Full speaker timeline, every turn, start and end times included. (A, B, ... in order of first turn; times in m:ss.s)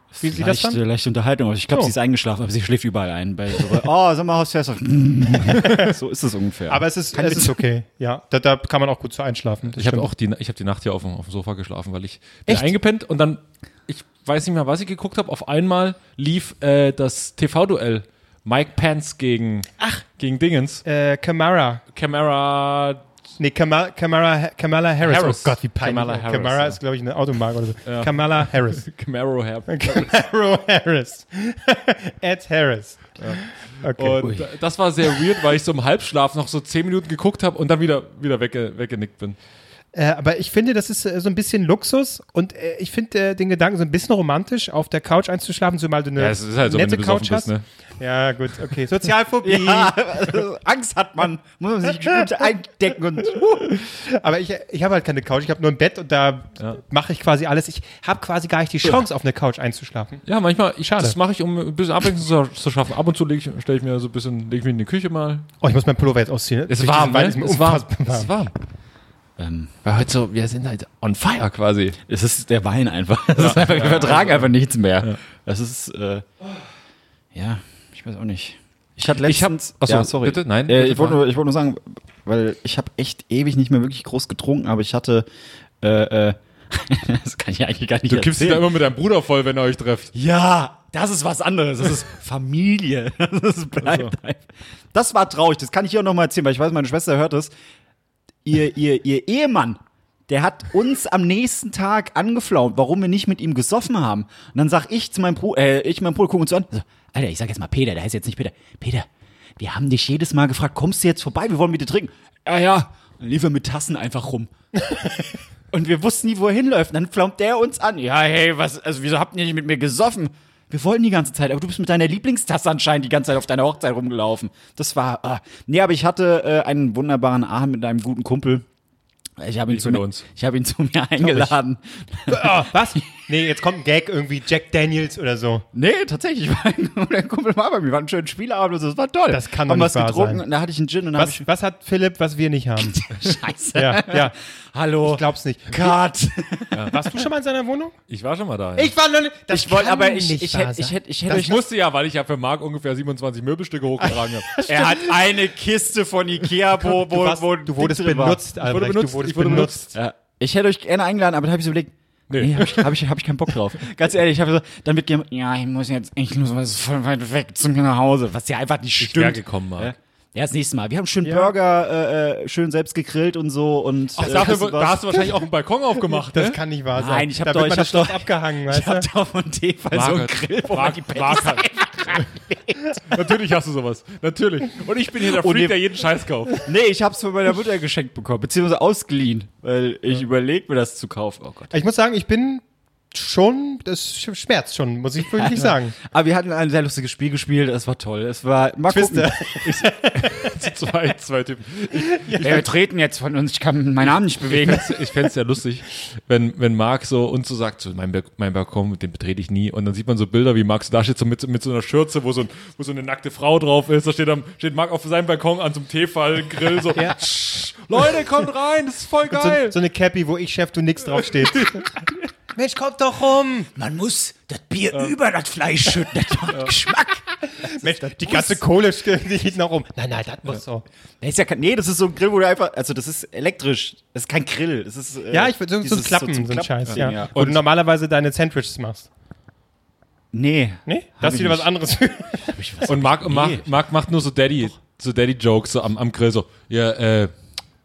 0:00.2-0:07.6 A
0:00.2-0:00.8 B
0:05.5-0:05.9 B
0:06.7-0:10.1 B
0:09.7-0:20.8 C
0:20.8-0:21.8 B
0:21.9-0:23.0 C
0:23.4-0:28.9 B
0:25.0-0:26.8 C
0:27.8-0:30.1 C
0:29.7-0:34.4 B
0:33.2-0:39.4 C
0:39.9-0:50.2 B
0:46.2-0:47.6 C
0:49.4-0:53.8 A
0:53.4-1:00.2 B
1:00.2-1:05.4 C
1:00.8-1:01.2 B
1:05.6-1:08.3 B
1:06.7-1:08.5 C
1:09.4-1:09.7 A
1:09.8-1:12.0 C
1:12.1-1:16.2 A
1:13.4-1:14.5 C
1:17.3-1:25.3 A
1:19.2-1:21.2 C
1:25.8-1:28.7 A
1:28.0-1:30.1 C
1:30.1-1:37.5 A
1:33.8-1:34.1 C
1:38.4-1:54.5 A
1:55.7-2:08.6 A
2:09.4-2:13.0 A
2:09.7-2:10.2 C
2:12.3-2:15.6 B
2:15.7-2:21.4 A
2:19.3-2:20.4 B
2:21.1-2:23.0 B
2:22.8-2:27.1 A
2:23.7-2:24.4 B
2:25.0-2:26.0 B
2:26.9-2:28.0 B
2:28.1-2:28.9 C
2:28.8-2:31.6 B
2:29.5-2:31.6 A
2:31.3-2:34.6 C
2:34.5-2:34.9 B
2:34.6-2:38.4 A
2:36.7-2:39.9 B
2:38.6-2:39.9 C
2:39.9-2:55.2 A
2:42.3-2:42.9 C
2:49.0-2:49.9 C
2:51.2-2:51.5 B
2:54.2-2:56.6 C
2:56.2-2:59.1 B
2:56.9-3:03.0 A
2:59.9-3:02.2 C
3:03.1-3:06.6 C
3:05.2-3:06.0 A
3:06.5-3:11.7 A
3:11.7-3:16.0 B
3:15.4-3:19.3 A
3:18.9-3:20.6 B
3:19.6-3:22.6 C
3:22.2-3:22.5 B
3:22.4-3:24.9 A
3:24.4-3:39.8 C
3:36.9-3:37.2 B
3:39.3-3:41.9 B
3:42.5-3:43.7 B
3:43.7-3:48.6 A
3:47.5-3:50.8 B
3:51.2-3:57.3 A
3:55.3-3:59.1 B
3:56.9-3:57.6 C
4:00.3-4:01.7 A
4:00.8-4:02.6 B
4:02.4-4:03.7 A
4:02.9-4:07.3 C